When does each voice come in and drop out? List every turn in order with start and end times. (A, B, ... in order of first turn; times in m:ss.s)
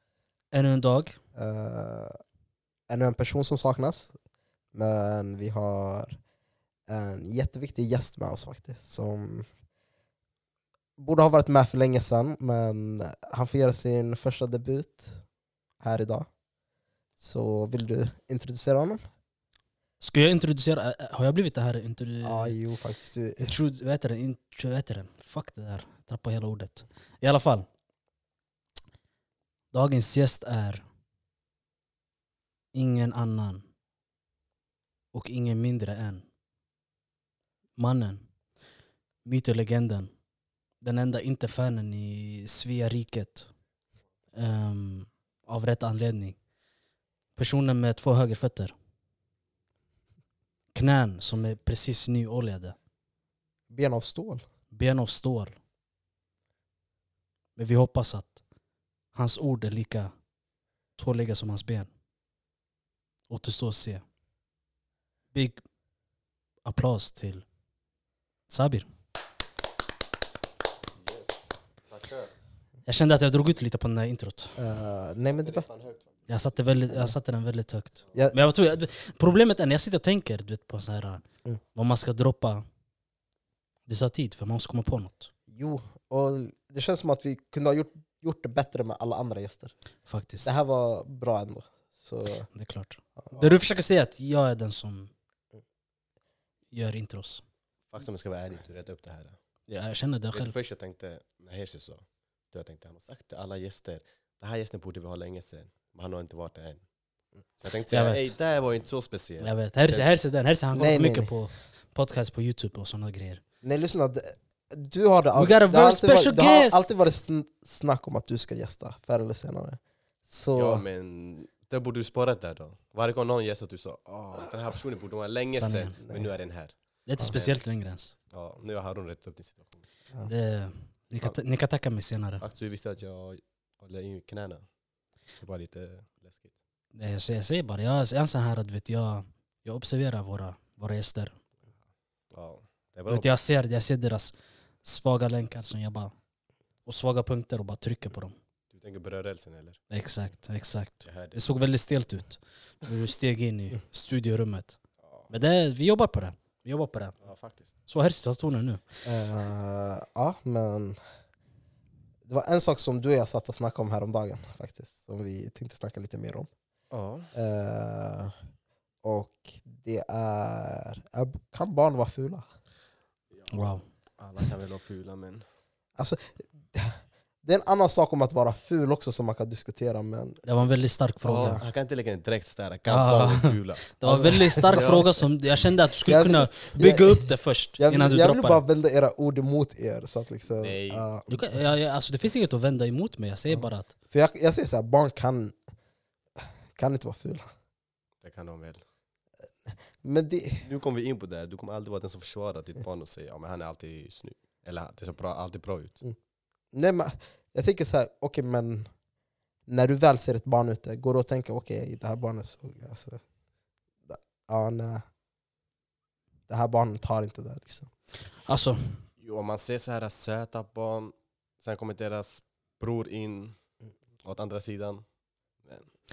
0:00.5-0:01.2 A
0:01.4-0:02.2 B
0:02.9-0:04.1 B
0:04.7-0:06.2 B
0:06.9-0:09.5 B
0:11.0-0:15.2 B
0:15.8-0:16.3 B
0:17.2-0:19.0 B
0:20.0-0:22.6 A
0:22.2-0:23.5 B
0:23.4-0:27.6 A
0:29.7-0:30.8 A
0:32.7-0:33.6 A
0:35.1-0:36.2 A
0:37.8-0:38.3 A
0:39.2-0:40.1 A
0:40.8-0:43.5 A
0:44.3-0:46.4 A
0:47.4-0:48.7 A
0:50.7-0:52.8 A
0:53.7-0:54.4 B
0:54.7-0:55.5 A
0:57.6-0:58.4 A
0:59.1-1:00.1 A
1:01.0-1:01.9 A
1:03.3-1:04.0 A
1:05.3-1:05.6 A
1:06.6-1:07.4 A
1:08.5-1:08.9 A
1:11.0-1:12.3 C
1:12.8-1:14.6 A
1:14.6-1:15.7 B
1:15.4-1:16.1 C
1:16.3-1:21.2 A
1:21.7-1:22.6 A
1:23.9-1:25.3 A
1:25.5-1:29.7 B
1:30.0-1:30.5 A
1:30.4-1:32.5 B
1:32.5-1:35.1 A
1:36.7-1:37.4 A
1:37.9-1:39.4 C
1:39.7-1:40.5 A
1:40.3-1:46.8 C
1:47.6-1:50.1 C
1:47.9-1:48.3 A
1:49.4-1:53.4 A
1:50.7-1:51.4 B
1:53.6-2:00.8 B
1:55.4-1:57.0 A
2:00.6-2:07.6 C
2:05.6-2:06.0 A
2:07.0-2:08.1 A
2:08.3-2:09.8 C
2:10.2-2:12.4 A
2:12.4-2:14.6 C
2:15.4-2:16.5 C
2:16.9-2:21.4 A
2:22.3-2:23.3 C
2:23.1-2:24.3 A
2:24.8-2:26.1 A
2:26.8-2:28.3 A
2:28.7-2:29.8 C
2:29.9-2:34.8 A
2:31.0-2:31.4 C
2:35.3-2:37.2 A
2:37.2-2:37.7 C
2:37.8-2:38.8 A
2:39.0-2:41.0 B
2:42.3-2:46.5 B
2:46.9-2:47.3 C
2:47.3-2:48.3 B
2:49.0-2:52.4 B
2:53.3-2:55.4 C
2:53.5-2:53.8 A
2:56.0-3:00.4 B
3:00.4-3:01.6 A
3:01.2-3:03.9 C
3:02.9-3:08.6 A
3:04.0-3:05.1 B
3:04.6-3:05.1 C
3:06.0-3:11.5 B
3:10.6-3:11.0 C
3:11.3-3:13.9 A
3:13.5-3:15.6 B
3:16.7-3:17.5 B
3:18.2-3:18.8 C
3:20.0-3:20.6 B
3:20.6-3:26.0 C
3:26.7-3:28.9 B
3:29.7-3:33.2 B
3:34.1-3:35.0 B
3:36.5-3:37.9 B
3:38.4-3:39.0 A
3:39.2-3:43.6 C
3:44.2-3:45.0 C